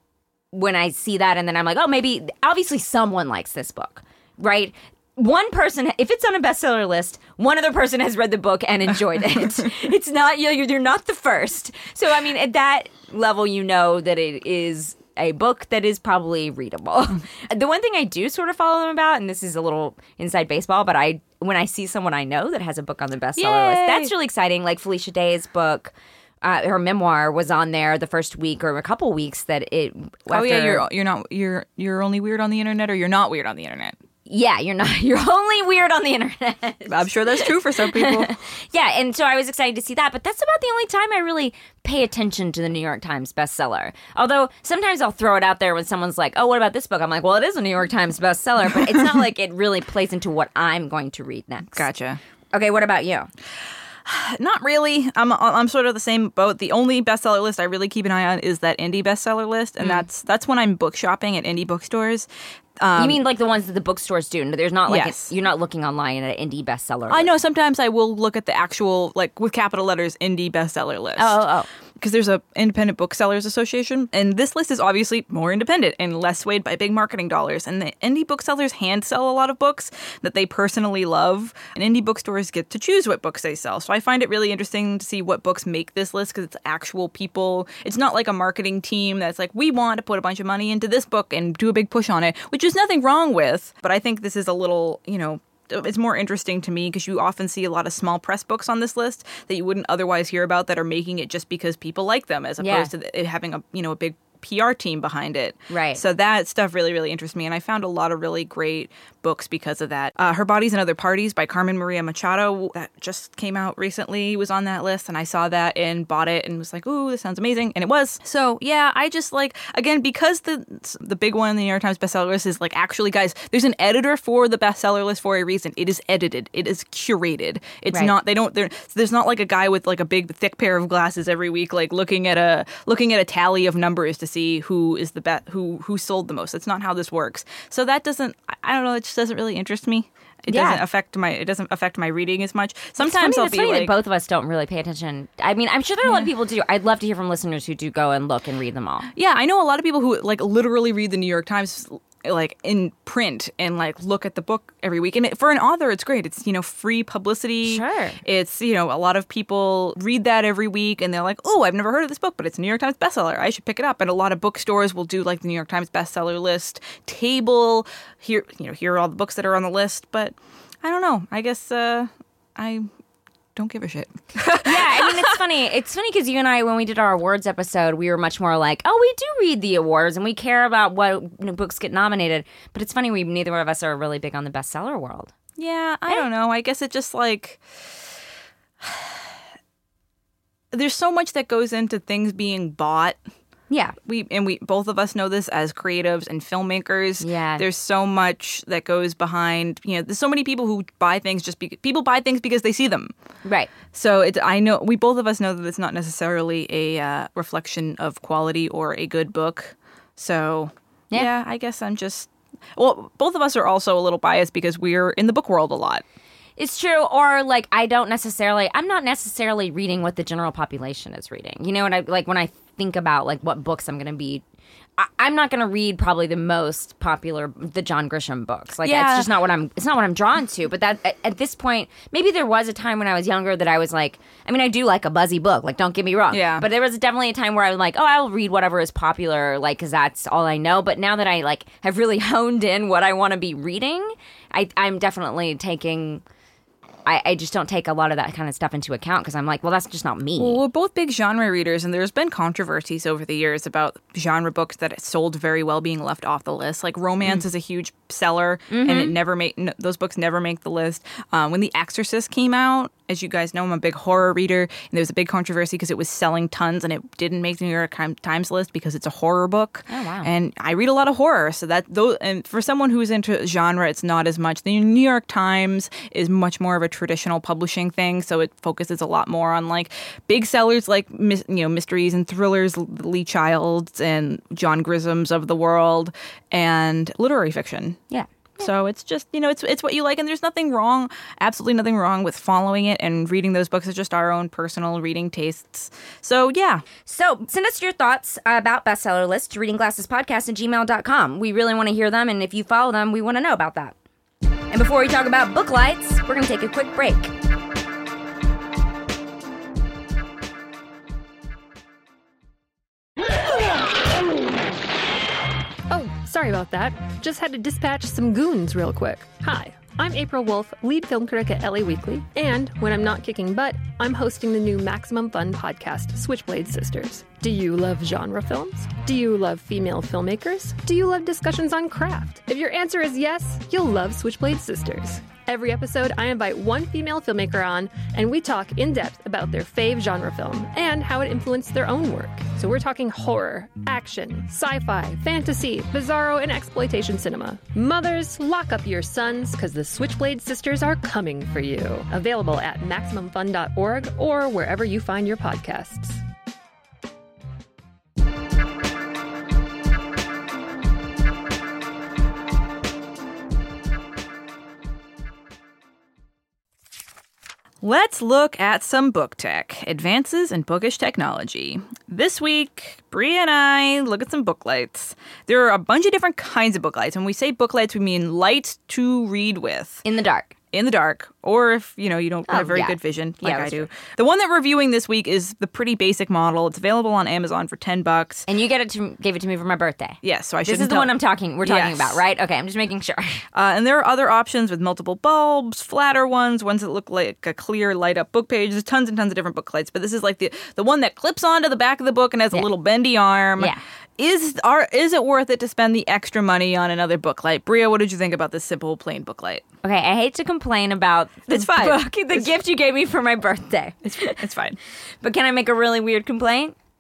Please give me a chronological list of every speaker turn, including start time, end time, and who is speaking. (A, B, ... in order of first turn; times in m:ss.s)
0:00.5-0:30.8 A
0:23.4-0:24.1 B
0:30.3-0:34.0 B
0:34.3-0:51.9 A
0:36.9-0:38.3 B
0:51.8-0:52.2 B
0:52.5-0:53.3 A
0:54.0-1:02.3 B
0:59.8-1:00.0 A
1:02.8-1:03.2 B
1:03.0-1:07.3 A
1:04.9-1:05.3 B
1:07.1-1:11.4 B
1:11.2-1:11.7 A
1:12.0-2:24.0 B
1:42.6-1:42.9 A
1:45.7-1:46.0 A
2:20.5-2:20.8 A
2:23.0-2:29.1 A
2:29.2-2:52.9 B
2:37.6-2:38.2 A
2:53.6-2:55.4 B
2:54.6-3:05.3 A
3:05.6-3:07.6 B
3:08.8-3:09.1 B
3:10.7-3:13.2 B
3:13.7-3:14.0 A
3:14.0-3:23.1 B
3:17.2-3:17.6 A
3:23.4-3:23.7 A
3:23.9-3:36.0 B
3:36.6-3:44.4 A
3:45.0-4:06.2 A
3:48.8-3:49.3 B
3:56.3-3:56.7 B
4:07.1-4:10.6 A
4:10.4-4:48.0 B
4:18.7-4:19.2 A
4:29.9-4:30.3 A
4:48.1-4:48.7 A
4:48.6-4:56.8 B
4:57.1-5:04.0 A
5:04.7-5:07.3 A
5:15.9-5:56.2 C
6:07.8-6:20.0 B
6:20.0-6:20.5 A
6:20.7-6:28.5 B
6:22.5-6:23.9 A
6:28.5-6:33.5 A
6:30.2-6:32.2 B
6:33.5-6:49.6 B
6:49.8-6:54.4 A
6:51.5-6:52.5 B
6:54.0-6:54.8 B
6:55.2-6:56.8 A